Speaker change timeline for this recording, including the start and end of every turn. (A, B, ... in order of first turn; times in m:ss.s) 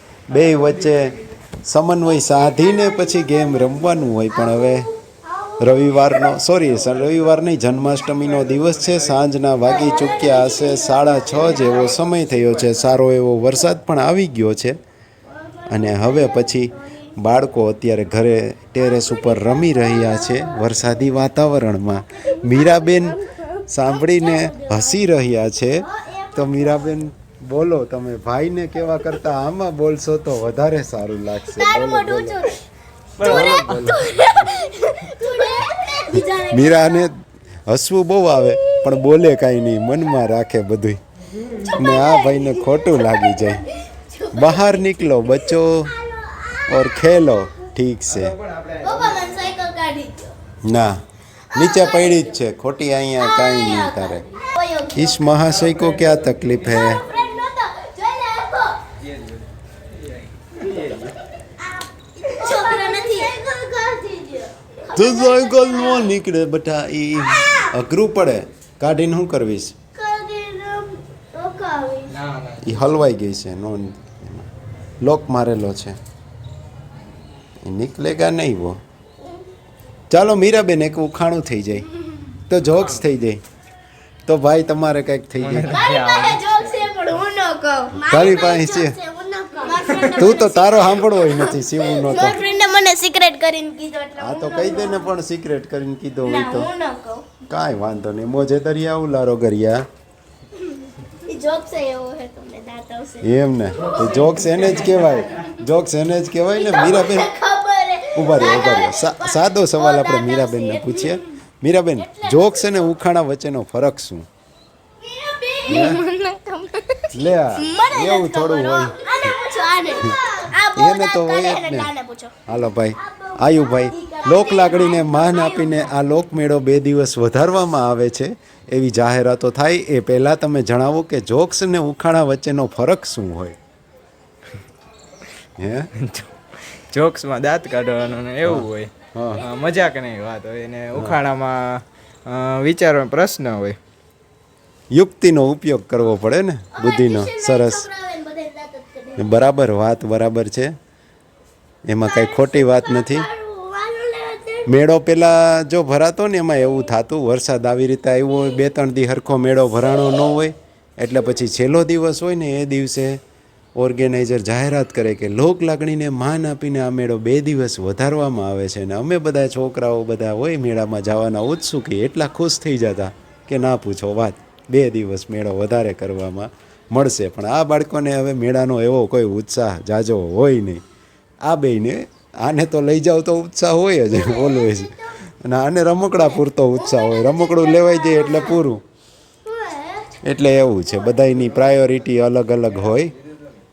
0:00.3-0:04.9 A
0:02.1-0:06.6 B
0:05.6-0:14.8 A
0:09.6-0:11.9 B
0:15.3-0:17.1 B
0:15.7-0:32.5 A
0:18.8-0:20.9 B
0:22.2-0:25.0 B
0:25.8-0:27.0 B
0:31.5-0:32.6 B
0:33.2-0:37.1 B
0:33.2-0:34.1 A
0:33.3-0:33.8 C
0:36.5-0:41.0 A
0:38.6-0:39.2 B
0:41.6-0:47.6 B
0:41.6-0:43.7 A
0:44.3-0:45.9 A
0:46.7-0:48.4 A
0:48.5-0:49.1 C
0:48.8-0:50.4 B
0:50.6-0:51.0 A
0:51.5-0:52.4 B
0:51.5-0:54.3 A
0:53.2-0:55.4 B
0:54.9-0:57.0 A
0:56.6-0:58.8 B
1:00.7-1:01.0 C
1:01.4-1:06.1 B
1:04.9-1:09.8 A
1:07.2-1:07.7 B
1:10.0-1:12.2 B
1:12.1-1:12.7 C
1:12.6-1:14.5 A
1:15.0-1:16.0 A
1:17.6-1:18.8 A
1:20.1-1:21.9 A
1:22.5-1:23.4 A
1:24.3-1:25.8 A
1:25.4-1:26.9 C
1:25.6-1:35.1 B
1:28.0-1:29.0 A
1:28.2-1:28.6 C
1:29.8-1:30.2 C
1:30.1-1:32.4 A
1:34.2-1:36.7 A
1:36.2-1:37.3 B
1:37.4-1:39.8 A
1:40.6-1:44.1 B
1:43.2-1:47.3 A
1:46.5-1:51.2 B
1:48.1-1:54.3 A
1:52.0-1:53.0 B
1:55.0-2:02.4 B
1:55.7-1:56.0 A
1:57.1-1:59.4 A
1:59.9-2:01.9 A
2:02.5-2:13.6 A
2:03.0-2:06.0 B
2:15.6-2:15.9 A
2:16.0-2:16.3 C
2:16.9-2:23.8 C
2:18.4-2:19.4 A
2:20.9-2:21.2 A
2:24.9-2:27.9 A
2:26.7-2:29.3 B
2:29.2-2:30.7 A
2:31.9-2:33.3 A
2:32.0-2:34.8 B
2:34.7-2:43.2 A
2:43.8-3:00.8 A
3:01.4-3:08.8 A
3:04.1-3:05.2 B
3:06.8-3:08.6 B
3:09.4-3:10.2 B
3:10.2-3:13.1 A